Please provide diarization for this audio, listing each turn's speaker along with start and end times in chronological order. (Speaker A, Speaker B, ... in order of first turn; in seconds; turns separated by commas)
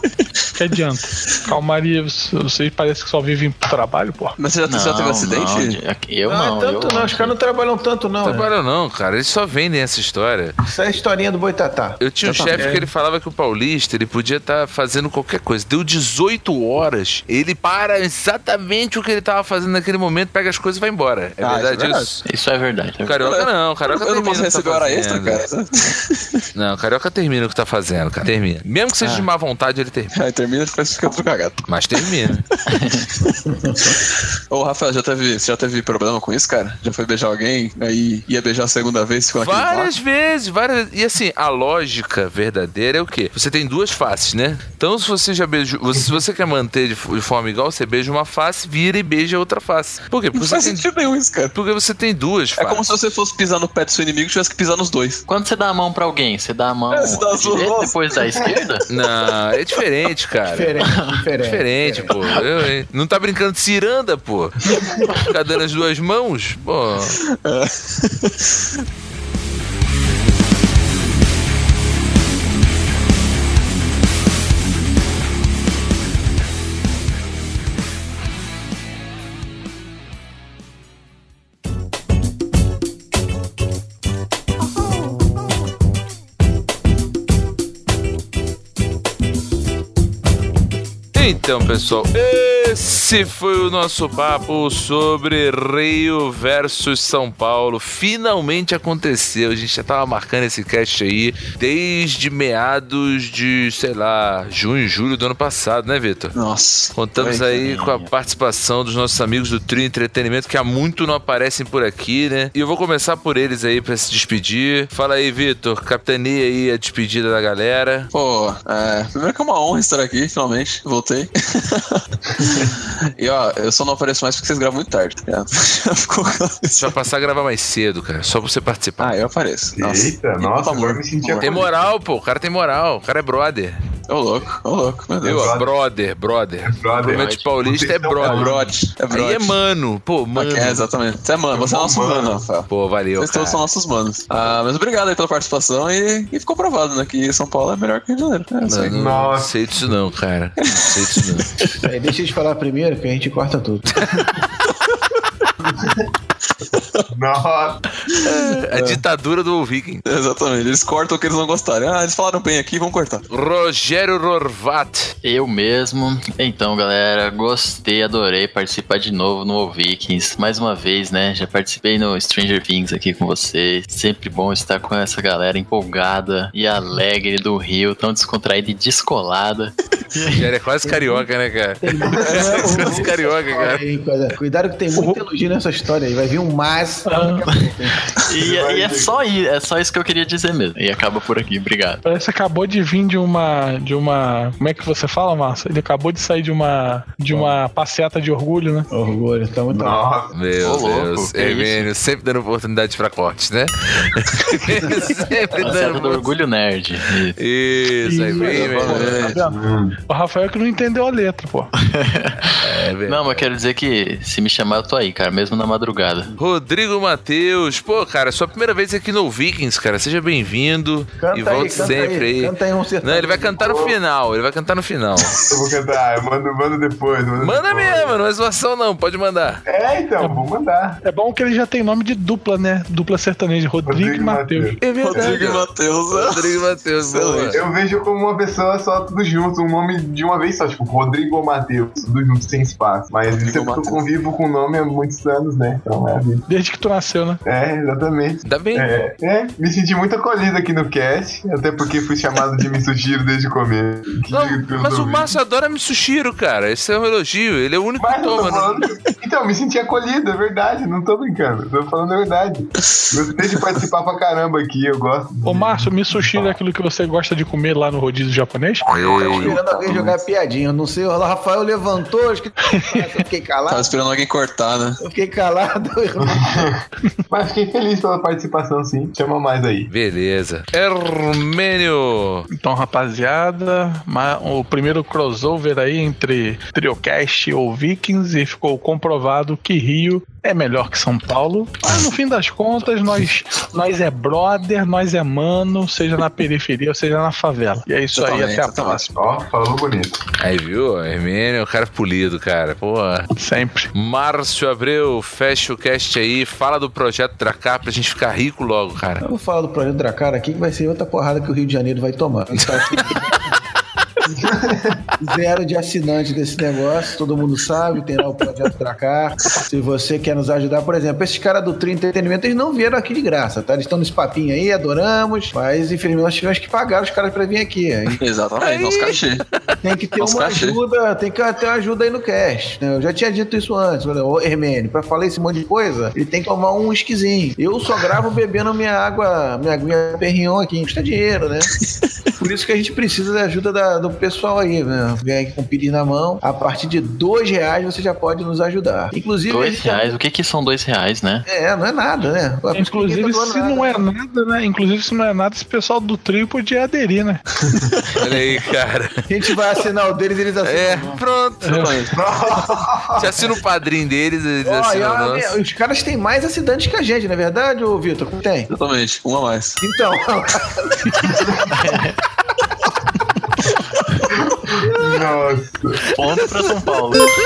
Speaker A: 0.6-4.4, Speaker B: 4.4-5.8, Speaker C: 4.7-7.3, Speaker D: 6.2-8.5, Speaker E: 8.2-10.6, Speaker D: 10.6-12.0, Speaker E: 12.0-22.2, Speaker B: 12.2-12.8, Speaker B: 21.4-22.1, Speaker C: 22.2-23.2, Speaker E: 23.1-25.4, Speaker B: 23.2-26.4, Speaker E: 26.6-30.1, Speaker B: 29.0-29.3, Speaker B: 30.1-32.2, Speaker E: 31.7-32.4, Speaker C: 32.7-33.1, Speaker B: 33.2-39.9, Speaker D: 33.5-34.0, Speaker E: 39.4-50.9, Speaker B: 50.3-51.5, Speaker E: 51.5-52.9, Speaker B: 52.6-55.2, Speaker C: 55.2-58.9, Speaker B: 56.9-58.0, Speaker E: 58.9-60.8, Speaker D: 60.5-62.1, Speaker E: 61.4-67.2, Speaker B: 67.1-68.8, Speaker E: 91.1-106.4, Speaker B: 106.3-107.6, Speaker E: 106.9-118.1, Speaker C: 107.5-108.1, Speaker B: 118.1-127.0, Speaker F: 122.4-122.8, Speaker E: 126.8-129.2, Speaker B: 129.0-131.7, Speaker F: 129.8-131.7, Speaker E: 131.4-133.8, Speaker B: 134.1-135.5, Speaker F: 135.2-135.7, Speaker E: 135.2-140.8, Speaker F: 136.7-138.7, Speaker C: 136.9-137.5, Speaker B: 138.2-139.6, Speaker B: 140.3-148.9, Speaker F: 141.5-142.5, Speaker E: 142.7-143.6, Speaker E: 148.6-151.6, Speaker F: 148.9-149.5, Speaker B: 150.6-151.6, Speaker D: 151.8-153.9, Speaker F: 155.6-156.1, Speaker B: 156.7-157.0, Speaker F: 157.1-157.8, Speaker E: 158.2-160.1, Speaker B: 160.1-163.2, Speaker E: 163.3-165.1, Speaker C: 165.2-180.4, Speaker E: 180.3-183.8, Speaker D: 180.8-181.2, Speaker D: 181.8-187.9, Speaker F: 182.1-183.0, Speaker A: 187.1-187.5, Speaker C: 188.2-192.0, Speaker F: 188.3-189.2, Speaker A: 192.0-198.9, Speaker D: 198.9-200.0, Speaker F: 199.7-200.3, Speaker E: 200.3-206.3, Speaker C: 200.6-201.9, Speaker C: 205.6-207.4, Speaker E: 207.4-209.3, Speaker A: 208.0-211.7, Speaker C: 208.4-208.9, Speaker B: 208.8-209.4, Speaker F: 209.5-210.0, Speaker C: 211.8-216.3, Speaker E: 212.4-213.5, Speaker E: 216.4-225.4, Speaker D: 221.2-223.8, Speaker F: 223.6-223.9, Speaker F: 225.3-228.2, Speaker E: 227.4-229.6, Speaker F: 229.7-231.0, Speaker A: 230.2-230.5, Speaker A: 231.0-234.8, Speaker F: 233.9-235.4, Speaker E: 234.8-237.6, Speaker B: 235.0-237.7, Speaker F: 237.5-246.4, Speaker B: 243.3-244.0, Speaker A: 246.5-247.4, Speaker F: 247.4-255.3, Speaker E: 248.4-248.9, Speaker E: 254.3-258.8, Speaker F: 258.0-266.6, Speaker A: 265.4-268.9, Speaker E: 268.9-269.6, Speaker D: 268.9-273.9, Speaker A: 272.6-273.2, Speaker B: 273.7-275.0, Speaker D: 275.0-276.7, Speaker F: 276.5-279.9, Speaker E: 279.9-282.5, Speaker A: 282.5-299.1, Speaker B: 298.1-299.1, Speaker F: 299.1-300.2, Speaker E: 300.4-303.3, Speaker A: 303.3-303.9, Speaker E: 303.9-309.2, Speaker D: 309.2-313.6, Speaker E: 312.5-313.2, Speaker F: 314.3-315.0, Speaker D: 315.2-328.2, Speaker B: 328.2-329.4, Speaker E: 328.6-329.6, Speaker D: 329.8-341.7, Speaker B: 330.2-330.8, Speaker D: 342.4-350.1, Speaker C: 349.5-351.4, Speaker D: 351.4-354.0, Speaker A: 352.7-357.4, Speaker E: 358.2-359.2, Speaker D: 359.3-361.2, Speaker E: 360.6-361.9, Speaker A: 361.6-361.9, Speaker B: 361.7-362.1, Speaker F: 362.1-363.4, Speaker E: 363.2-365.5, Speaker D: 364.6-368.7, Speaker B: 368.7-369.8, Speaker D: 369.8-371.5, Speaker F: 371.2-371.7, Speaker C: 371.7-372.1, Speaker F: 374.2-376.0, Speaker D: 374.7-375.2, Speaker C: 376.1-377.3, Speaker E: 376.3-376.7